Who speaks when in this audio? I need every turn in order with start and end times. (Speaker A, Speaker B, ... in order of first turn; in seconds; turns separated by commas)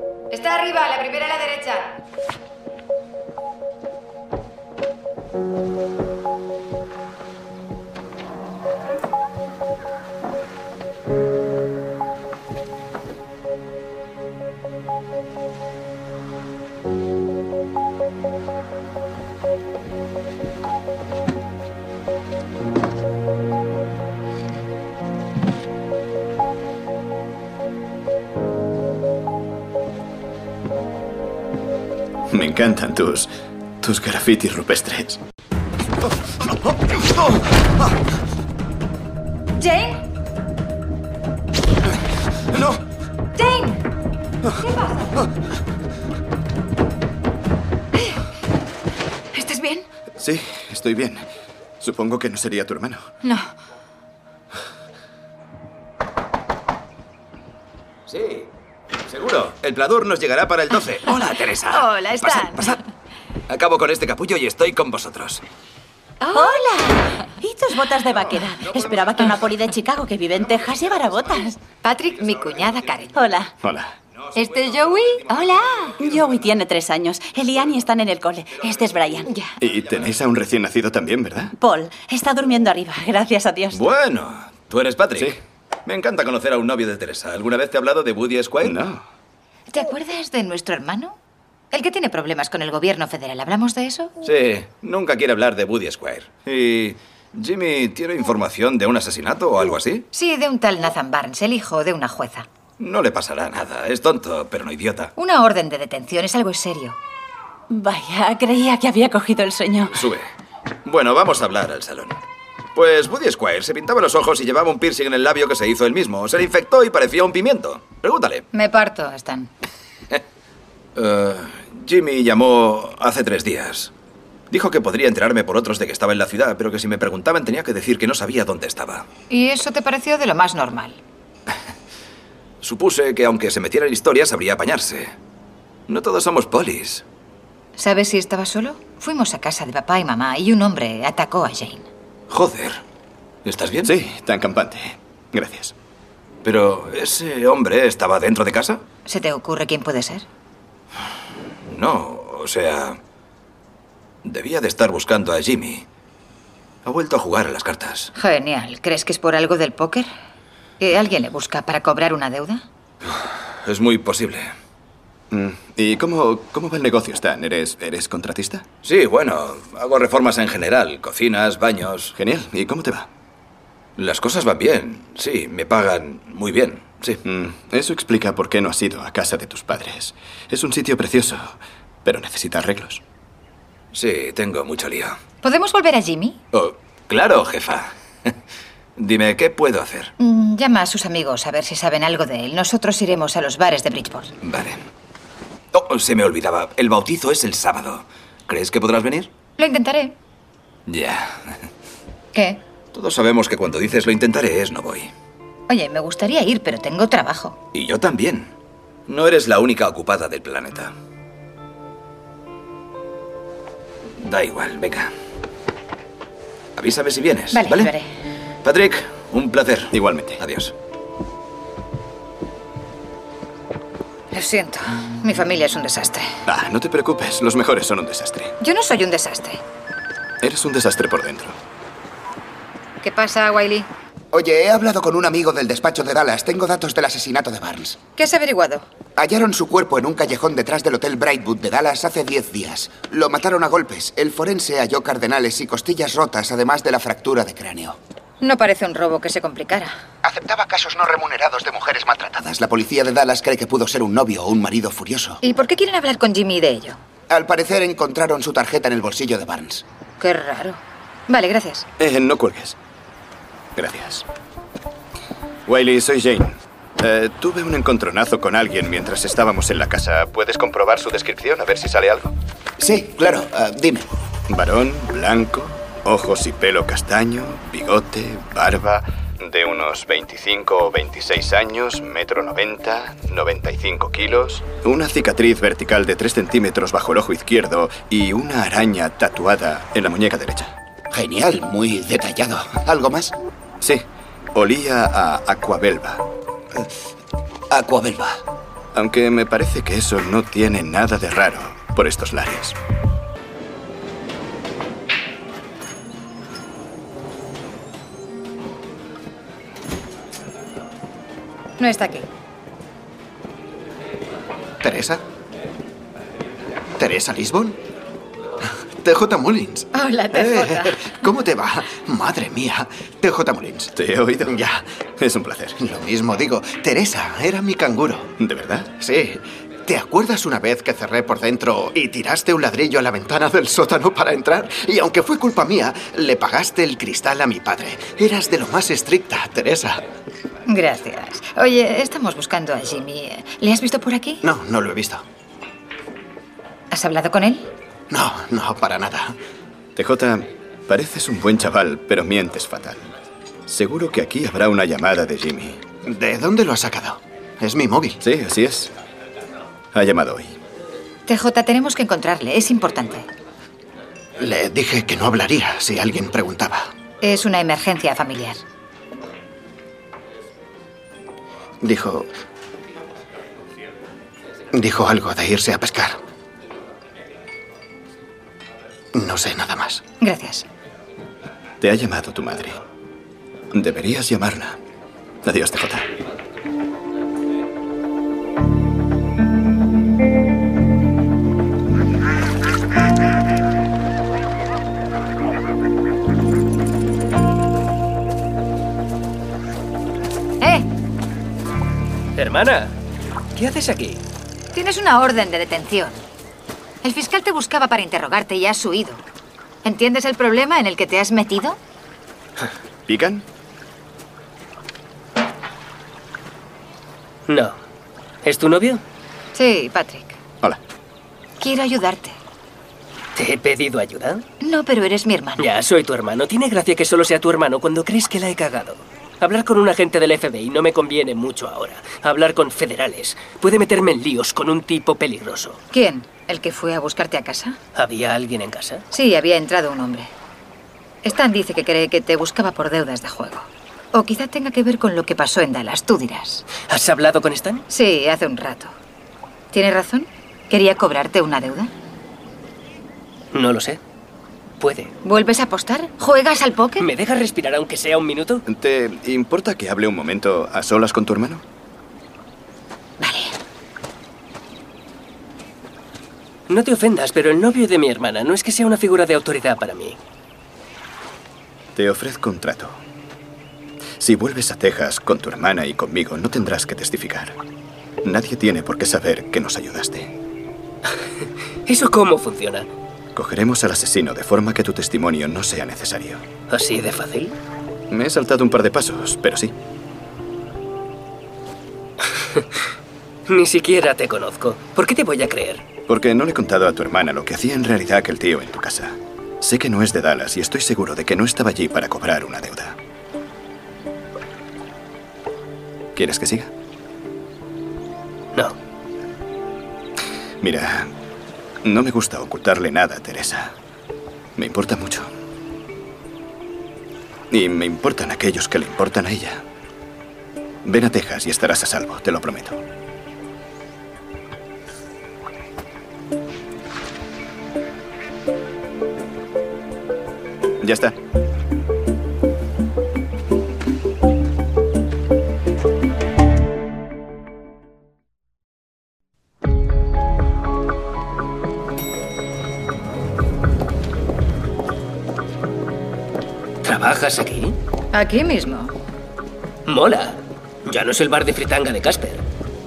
Speaker A: 0.3-2.0, Speaker B: 32.3-33.3, Speaker B: 33.8-35.2, Speaker B: 36.5-37.4, Speaker A: 39.6-40.0, Speaker B: 42.5-42.8, Speaker A: 43.4-43.8, Speaker A: 44.6-45.1, Speaker A: 49.3-49.9, Speaker B: 50.2-51.3, Speaker B: 51.8-53.1, Speaker A: 53.2-53.5, Speaker C: 58.1-58.5, Speaker C: 59.1-62.8, Speaker A: 61.1-62.8, Speaker C: 63.5-65.4, Speaker A: 66.3-66.7, Speaker D: 66.3-71.6, Speaker A: 71.8-73.2, Speaker C: 72.6-72.8, Speaker D: 73.1-73.5, Speaker B: 73.6-73.9, Speaker C: 74.2-76.2, Speaker A: 74.3-75.9, Speaker D: 76.0-79.3, Speaker B: 79.6-81.5, Speaker D: 81.6-83.8, Speaker C: 83.7-88.8, Speaker B: 88.6-89.0, Speaker A: 89.7-91.2, Speaker A: 91.7-94.1, Speaker C: 94.2-100.1, Speaker A: 100.1-102.5, Speaker C: 102.8-105.1, Speaker A: 105.2-107.0, Speaker D: 107.7-110.0, Speaker C: 109.9-110.2, Speaker C: 110.9-112.2, Speaker C: 112.8-118.4, Speaker A: 118.5-119.5, Speaker C: 121.0-123.9, Speaker C: 124.5-129.1, Speaker A: 129.3-131.0, Speaker C: 132.6-135.2, Speaker C: 135.9-137.0, Speaker A: 137.8-141.9, Speaker C: 142.3-142.8, Speaker C: 143.4-143.9, Speaker B: 143.8-145.7, Speaker C: 146.4-148.8, Speaker A: 149.1-150.2, Speaker C: 151.7-153.0, Speaker C: 154.2-155.9, Speaker C: 156.8-158.1, Speaker A: 158.2-160.1, Speaker A: 160.8-162.6, Speaker C: 163.6-164.5, Speaker B: 165.3-168.7, Speaker C: 168.8-172.1, Speaker B: 172.1-173.1, Speaker C: 174.0-177.2, Speaker B: 177.2-183.0, Speaker C: 183.9-185.2, Speaker A: 185.4-186.4, Speaker C: 186.5-187.9, Speaker C: 189.0-190.1, Speaker A: 190.2-194.3, Speaker C: 194.4-194.8, Speaker C: 195.7-199.3, Speaker A: 199.6-200.2, Speaker C: 200.9-201.4, Speaker A: 202.3-202.6, Speaker C: 202.9-205.1, Speaker A: 205.7-207.6, Speaker C: 207.7-208.5, Speaker C: 209.1-210.9, Speaker C: 214.2-215.1, Speaker C: 216.8-217.9, Speaker A: 217.5-218.1, Speaker C: 218.6-220.7, Speaker B: 219.9-220.4, Speaker A: 224.3-226.4, Speaker B: 226.5-228.5, Speaker A: 228.6-229.6, Speaker B: 230.4-231.6, Speaker A: 233.0-233.9, Speaker E: 234.3-238.0, Speaker A: 238.2-238.8, Speaker E: 239.2-248.0, Speaker A: 248.4-249.9, Speaker E: 250.2-255.4, Speaker A: 255.4-257.0, Speaker E: 257.3-259.8, Speaker A: 260.2-261.9, Speaker B: 262.0-262.8, Speaker B: 263.8-264.2, Speaker B: 265.7-272.3, Speaker E: 272.8-274.1, Speaker B: 274.5-290.7, Speaker E: 291.1-293.3, Speaker B: 293.8-296.2, Speaker E: 297.7-298.4, Speaker B: 298.9-302.8, Speaker A: 311.8-312.3, Speaker F: 314.8-315.2, Speaker F: 317.0-317.8, Speaker F: 319.0-323.9, Speaker A: 319.9-321.1, Speaker B: 323.9-324.6, Speaker F: 324.5-324.8, Speaker B: 325.2-325.8, Speaker F: 325.8-328.3, Speaker B: 328.4-328.9, Speaker F: 329.0-340.0, Speaker A: 340.7-344.4, Speaker F: 344.4-345.2, Speaker A: 346.9-347.6, Speaker F: 348.1-349.3, Speaker B: 350.0-353.1, Speaker B: 353.7-355.8, Speaker F: 356.0-358.2, Speaker B: 358.2-358.9, Speaker B: 359.9-360.6, Speaker A: 361.3-363.3, Speaker F: 364.4-366.9, Speaker A: 367.2-368.6, Speaker F: 371.8-372.3, Speaker F: 374.7-376.2, Speaker F: 379.1-380.0, Speaker A: 380.2-380.7, Speaker B: 381.8-382.8, Speaker B: 383.7-384.8, Speaker B: 385.4-386.1, Speaker A: 400.6-400.9, Speaker G: 402.4-402.9, Speaker G: 403.6-404.2, Speaker A: 404.7-406.2, Speaker A: 407.0-409.2, Speaker A: 409.8-411.8, Speaker B: 413.1-413.4, Speaker G: 417.5-417.8, Speaker G: 418.4-419.0, Speaker A: 419.5-420.4, Speaker A: 421.6-422.4, Speaker G: 423.4-424.4, Speaker A: 424.6-425.7, Speaker G: 425.6-435.8, Speaker A: 435.9-437.8, Speaker G: 437.9-439.0, Speaker A: 439.1-440.3, Speaker A: 441.2-446.6, Speaker G: 446.9-447.8, Speaker A: 447.9-448.9, Speaker A: 449.7-451.9, Speaker G: 453.5-454.0, Speaker G: 454.8-455.1, Speaker A: 455.2-457.1, Speaker G: 457.0-458.6, Speaker B: 458.7-461.6, Speaker A: 463.2-463.5, Speaker G: 466.7-470.2, Speaker B: 472.0-473.0, Speaker B: 474.2-477.6, Speaker B: 478.2-480.3, Speaker G: 481.9-482.9, Speaker B: 483.4-486.4, Speaker G: 486.7-487.6, Speaker B: 488.1-489.7, Speaker G: 493.5-495.9, Speaker B: 496.1-503.0, Speaker B: 506.2-506.7, Speaker B: 510.6-511.1, Speaker B: 511.8-513.7, Speaker B: 514.6-515.3, Speaker B: 517.5-519.6, Speaker B: 520.8-522.8, Speaker B: 530.8-531.2, Speaker G: 546.8-547.8, Speaker A: 548.1-548.9, Speaker G: 549.9-552.5